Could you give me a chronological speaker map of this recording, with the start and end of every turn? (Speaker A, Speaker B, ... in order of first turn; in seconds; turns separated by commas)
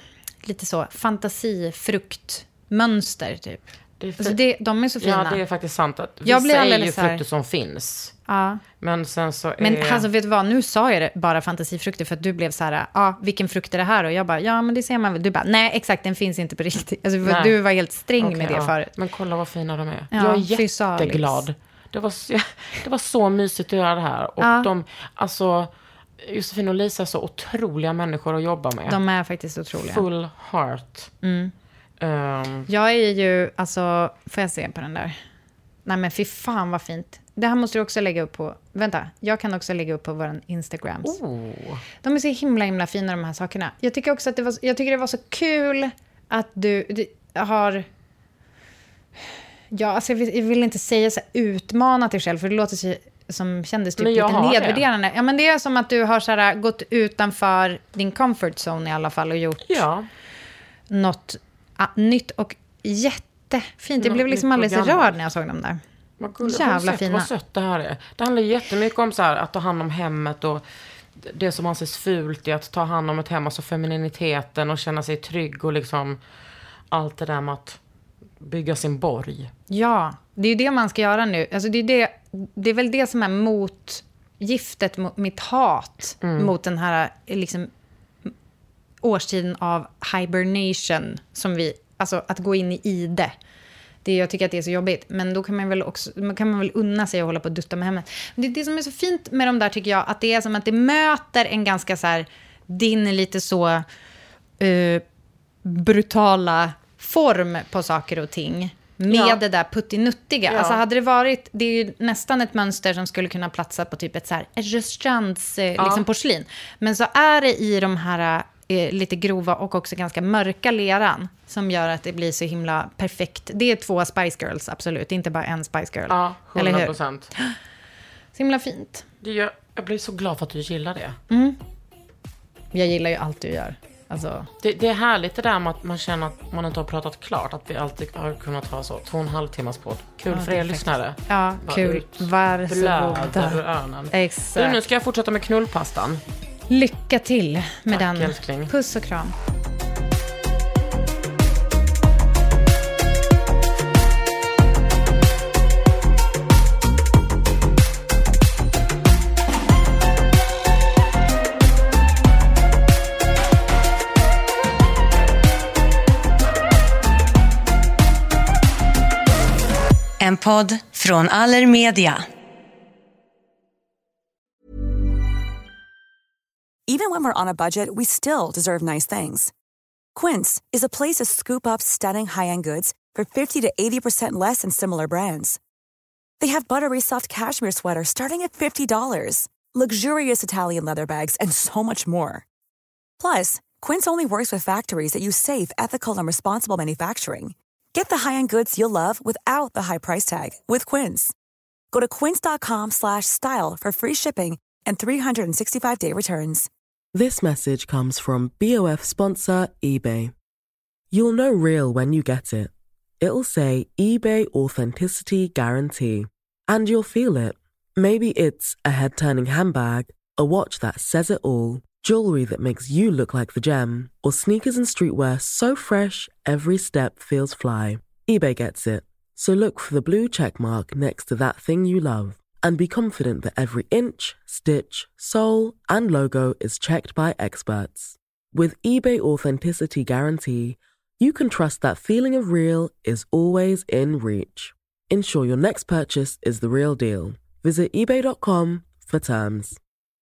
Speaker A: 0.4-3.6, Speaker B: 4.0-4.4, Speaker A: 4.2-5.4, Speaker B: 5.0-8.2, Speaker A: 6.2-7.2, Speaker A: 8.3-8.6, Speaker B: 8.8-10.1, Speaker A: 9.6-18.9, Speaker B: 17.2-17.6, Speaker B: 18.2-25.7, Speaker A: 20.1-21.4, Speaker A: 24.4-24.7, Speaker B: 26.2-29.0, Speaker A: 28.9-30.1, Speaker B: 29.8-31.1, Speaker A: 31.2-31.5, Speaker B: 32.0-32.7, Speaker A: 32.7-35.2, Speaker A: 35.9-41.2, Speaker B: 41.0-41.8, Speaker A: 42.0-47.9, Speaker A: 49.7-59.9, Speaker B: 54.0-54.9, Speaker B: 59.6-60.1, Speaker A: 60.9-65.8, Speaker B: 64.0-65.2, Speaker B: 66.2-70.6, Speaker A: 66.4-67.3, Speaker B: 71.2-76.2, Speaker B: 76.9-77.8, Speaker B: 78.4-79.5, Speaker A: 79.7-87.7, Speaker B: 86.2-86.5, Speaker A: 89.0-93.3, Speaker A: 94.0-103.8, Speaker A: 104.6-105.0, Speaker A: 105.6-127.5, Speaker B: 109.1-109.4, Speaker B: 110.5-110.8, Speaker B: 115.8-116.1, Speaker B: 126.1-127.3, Speaker A: 128.3-129.1, Speaker B: 129.2-131.2, Speaker A: 131.3-131.6, Speaker A: 132.7-134.5, Speaker B: 134.6-146.2, Speaker A: 140.3-144.8, Speaker A: 146.7-149.3, Speaker B: 147.9-148.7, Speaker C: 170.2-172.2, Speaker D: 176.9-179.5, Speaker D: 180.2-185.6, Speaker D: 186.4-192.4, Speaker D: 193.2-201.3, Speaker D: 201.9-206.7, Speaker E: 207.2-210.3, Speaker E: 211.1-249.8